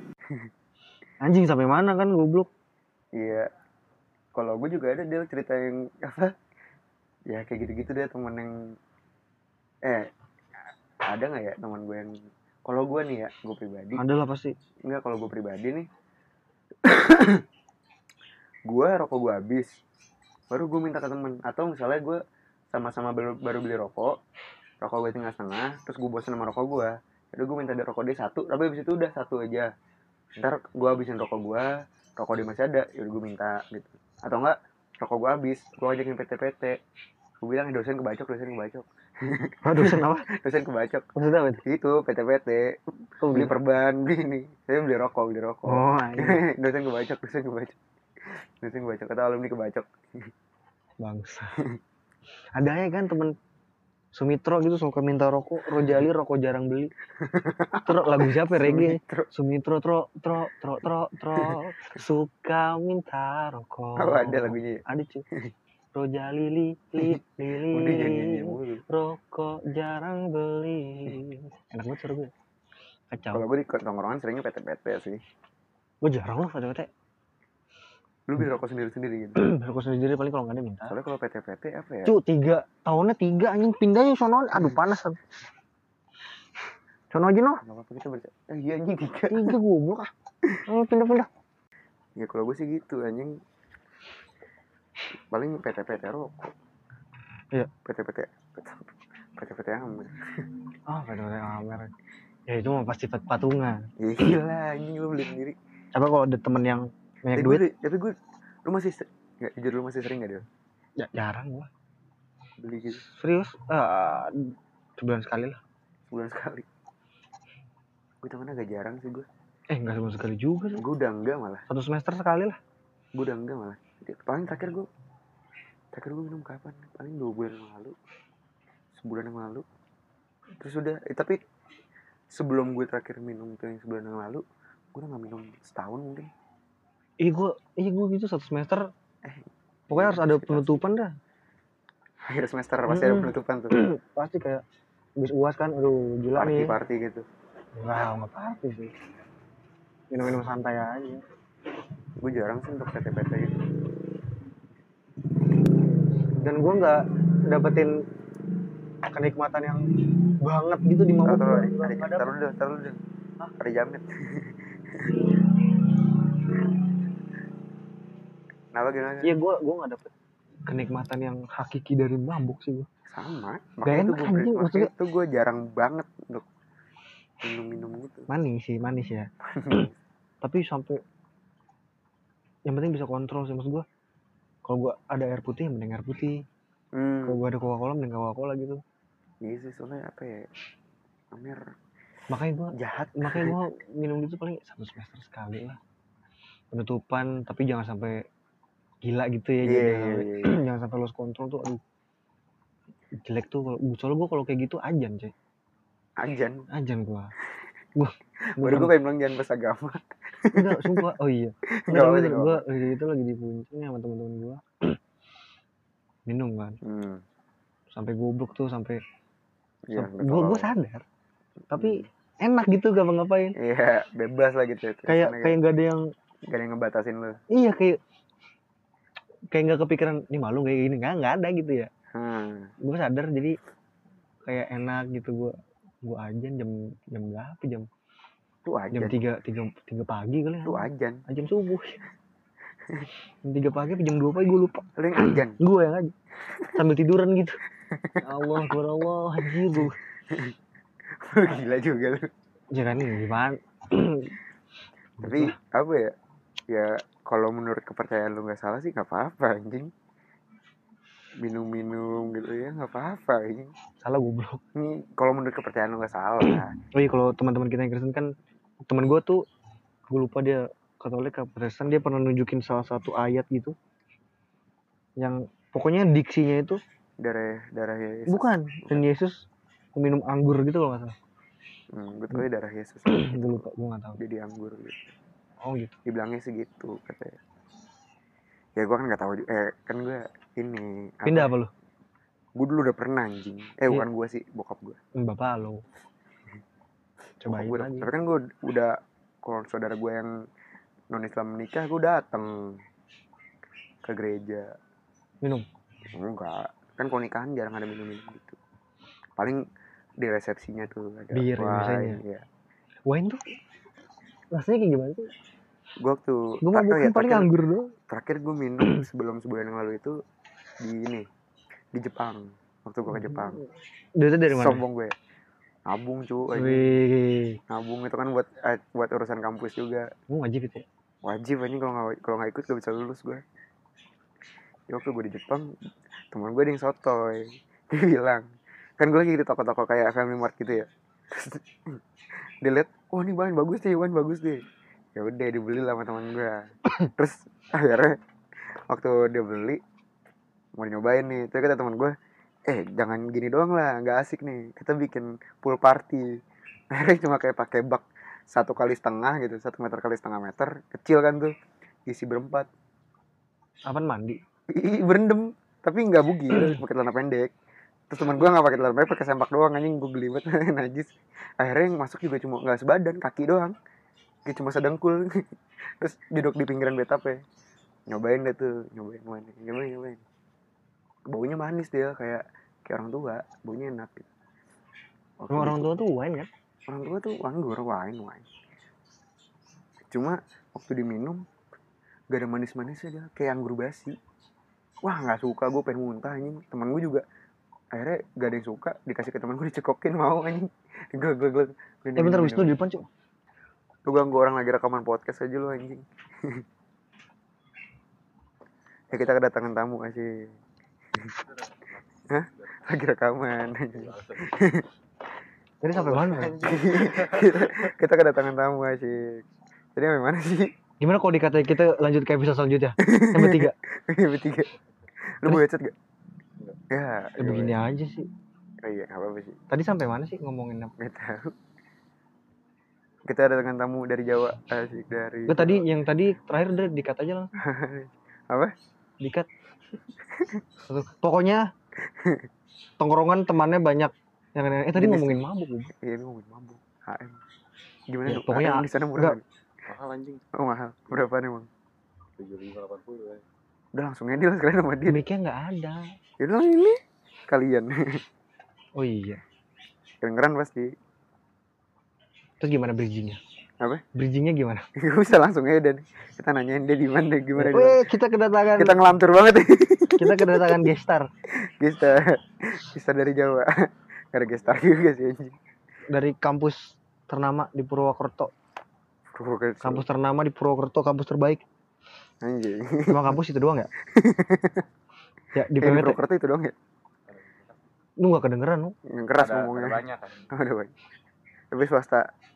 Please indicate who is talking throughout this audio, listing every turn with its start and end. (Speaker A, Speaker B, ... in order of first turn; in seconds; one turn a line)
Speaker A: 1.2-2.5
Speaker B: 3.1-3.5
Speaker B: 4.3-6.3
Speaker B: 7.3-8.7
Speaker B: 9.8-10.1
Speaker B: 11.1-14.0
Speaker A: 13.9-14.5
Speaker B: 14.9-15.9
Speaker B: 16.8-17.4
Speaker B: 18.7-19.8
Speaker B: 20.5-22.2
Speaker B: 22.7-24.2
Speaker B: 24.8-29.7
Speaker B: 30.4-36.8
Speaker B: 37.4-41.1
Speaker A: 39.6-40.3
Speaker A: 41.2-41.6
Speaker B: 41.6-50.3
Speaker A: 43.2-43.5
Speaker A: 45.7-46.4
Speaker A: 51.0-51.6
Speaker A: 52.5-53.4
Speaker A: 54.1-56.9
Speaker B: 57.2-59.3
Speaker A: 57.8-65.2
Speaker B: 64.0-65.5
Speaker A: 65.9-72.3
Speaker B: 67.0-68.8
Speaker A: 73.1-73.5
Speaker B: 73.3-75.2
Speaker A: 76.0-76.9
Speaker B: 78.3-79.4
Speaker A: 79.4-81.0
Speaker B: 80.9-82.1
Speaker A: 82.0-85.2
Speaker A: 87.1-87.6
Speaker B: 87.6-89.6
Speaker A: 89.3-90.1
Speaker A: 90.7-91.3
Speaker B: 92.2-93.4
Speaker B: 95.3-96.5
Speaker B: 97.8-100.5
Speaker A: 100.9-101.9
Speaker A: 102.5-103.9
Speaker B: 104.0-105.6
Speaker A: 106.0-107.7
Speaker B: 107.3-110.5
Speaker A: 111.0-111.7
Speaker B: 112.6-113.0
Speaker A: 113.0-115.6
Speaker B: 116.1-116.7
Speaker B: 118.2-119.3
Speaker A: 119.7-120.8
Speaker B: 120.8-121.7
Speaker A: 121.7-122.6
Speaker B: 123.2-124.9
Speaker B: 125.9-128.0
Speaker B: 128.9-129.7
Speaker B: 130.6-131.4
Speaker B: 132.3-134.4
Speaker B: 134.9-136.3
Speaker A: 137.2-138.9
Speaker B: 139.2-140.8
Speaker A: 139.9-141.1
Speaker B: 142.2-143.7
Speaker A: 142.9-144.6
Speaker A: 145.2-146.8
Speaker B: 146.3-147.3
Speaker A: 147.8-148.9
Speaker A: 150.1-151.2
Speaker B: 152.2-153.7
Speaker A: 156.3-158.0
Speaker A: 159.1-159.9
Speaker A: 160.4-162.3
Speaker B: 161.2-163.0
Speaker B: 163.6-165.2
Speaker B: 168.7-169.3
Speaker A: 169.2-170.1
Speaker A: 170.7-172.9
Speaker B: 173.1-176.5
Speaker A: 173.8-174.9
Speaker B: 177.4-178.3
Speaker A: 178.3-179.9
Speaker B: 179.4-180.0
Speaker A: 180.4-181.0
Speaker A: 182.7-183.8
Speaker A: 184.7-186.4
Speaker B: 186.9-187.4
Speaker A: 187.2-188.8
Speaker B: 189.4-190.5
Speaker B: 191.3-191.6
Speaker A: 192.3-195.8
Speaker B: 192.7-193.6
Speaker A: 196.7-198.2
Speaker A: 199.0-201.8
Speaker B: 199.6-200.6
Speaker A: 203.2-205.3
Speaker B: 206.2-206.7
Speaker A: 206.7-207.3
Speaker A: 208.0-208.9
Speaker B: 208.6-211.1
Speaker A: 210.5-215.0
Speaker B: 211.8-212.6
Speaker A: 216.3-216.8
Speaker B: 216.8-217.2
Speaker A: 217.9-219.0
Speaker B: 219.9-220.7
Speaker A: 219.9-221.1
Speaker A: 221.7-223.6
Speaker B: 221.7-222.1
Speaker B: 223.6-225.6
Speaker A: 225.1-226.0
Speaker B: 226.5-227.4
Speaker A: 227.5-228.0
Speaker A: 229.5-231.9
Speaker B: 232.1-232.7
Speaker A: 232.8-233.6
Speaker A: 234.4-237.9
Speaker B: 238.6-239.2
Speaker A: 238.9-242.0
Speaker B: 240.7-241.2
Speaker A: 243.4-246.2
Speaker B: 245.0-245.6
Speaker A: 246.7-247.6
Speaker B: 247.9-248.6
Speaker A: 248.2-250.0
Speaker B: 249.5-250.6
Speaker B: 251.2-252.3
Speaker A: 252.7-254.4
Speaker A: 255.2-255.6
Speaker B: 255.2-256.1
Speaker B: 256.7-259.9
Speaker B: 261.4-263.7
Speaker A: 264.0-264.6
Speaker B: 264.8-266.8
Speaker A: 266.5-268.3
Speaker A: 268.9-269.4
Speaker A: 270.1-273.8
Speaker A: 275.2-276.8
Speaker B: 277.2-279.1
Speaker A: 278.3-281.1
Speaker B: 281.9-283.7
Speaker A: 283.1-284.2
Speaker B: 284.2-285.1
Speaker A: 285.6-285.9
Speaker B: 286.1-287.4
Speaker B: 288.8-291.5
Speaker A: 291.3-291.7
Speaker B: 292.6-295.0
Speaker A: 295.2-295.8
Speaker A: 297.4-298.1
Speaker B: 297.5-300.4
Speaker B: 301.1-302.8
Speaker B: 304.0-304.8
Speaker B: 306.1-308.6
Speaker B: 309.4-309.6
Speaker B: 310.2-312.5
Speaker A: 311.3-312.2
Speaker A: 313.1-313.6
Speaker A: 314.5-315.3
Speaker B: 316.0-317.5
Speaker A: 316.6-317.9
Speaker B: 318.1-320.2
Speaker B: 320.8-321.3
Speaker B: 321.9-323.6
Speaker A: 323.1-323.7
Speaker A: 324.2-324.8
Speaker B: 324.5-325.1
Speaker B: 325.9-326.9
Speaker A: 326.6-327.6
Speaker B: 327.7-330.1
Speaker A: 330.3-330.9
Speaker B: 331.2-333.4
Speaker B: 334.9-335.8
Speaker B: 336.3-338.5
Speaker B: 339.0-342.0
Speaker B: 342.6-344.6
Speaker B: 345.1-348.2
Speaker B: 348.9-349.8
Speaker B: 350.8-352.1
Speaker B: 352.7-356.3
Speaker B: 356.9-361.5
Speaker B: 362.1-362.7
Speaker A: 363.9-364.4
Speaker B: 364.7-367.5
Speaker B: 368.1-373.8
Speaker B: 374.5-377.4
Speaker B: 378.1-380.2
Speaker B: 381.3-384.3
Speaker B: 385.4-386.0
Speaker A: 385.5-386.5
Speaker B: 386.9-388.5
Speaker B: 390.1-391.4
Speaker B: 392.3-394.2
Speaker B: 395.0-397.2
Speaker B: 397.9-402.8
Speaker A: 402.2-403.1
Speaker B: 404.1-406.6
Speaker B: 409.1-410.5
Speaker C: 411.5-412.0
Speaker B: 412.3-414.9
Speaker C: 412.6-412.9
Speaker C: 413.9-414.6
Speaker A: 415.8-416.6
Speaker C: 415.9-417.9
Speaker B: 416.6-420.7
Speaker A: 421.0-423.8
Speaker B: 423.0-424.7
Speaker B: 425.4-426.0
Speaker B: 426.9-427.8
Speaker A: 427.4-428.3
Speaker B: 428.8-429.6
Speaker A: 429.7-430.9
Speaker B: 431.0-431.6
Speaker B: 433.3-435.8
Speaker A: 435.5-437.6
Speaker B: 437.6-438.7
Speaker A: 439.2-439.5
Speaker B: 440.3-440.6
Speaker A: 440.8-441.7
Speaker B: 442.0-442.5
Speaker A: 443.0-445.9
Speaker B: 444.9-447.4
Speaker B: 448.1-449.4
Speaker A: 448.3-449.4
Speaker C: 449.9-450.4
Speaker B: 450.5-451.7
Speaker C: 452.4-453.4
Speaker B: 453.9-455.2
Speaker A: 455.1-456.1
Speaker B: 456.4-458.2
Speaker A: 459.0-459.4
Speaker B: 460.2-460.9
Speaker A: 462.6-463.4
Speaker A: 464.1-464.9
Speaker B: 465.0-468.0
Speaker A: 467.6-469.0
Speaker B: 468.8-470.9
Speaker A: 470.2-471.3
Speaker B: 471.5-475.6
Speaker A: 476.1-478.5
Speaker B: 479.3-480.1
Speaker A: 479.8-481.6
Speaker B: 482.4-483.4
Speaker A: 483.1-483.9
Speaker B: 484.0-484.9
Speaker A: 485.6-486.2
Speaker B: 485.8-486.8
Speaker C: 487.3-487.8
Speaker A: 488.2-488.9
Speaker B: 489.1-490.9
Speaker C: 489.4-490.5
Speaker B: 491.7-492.3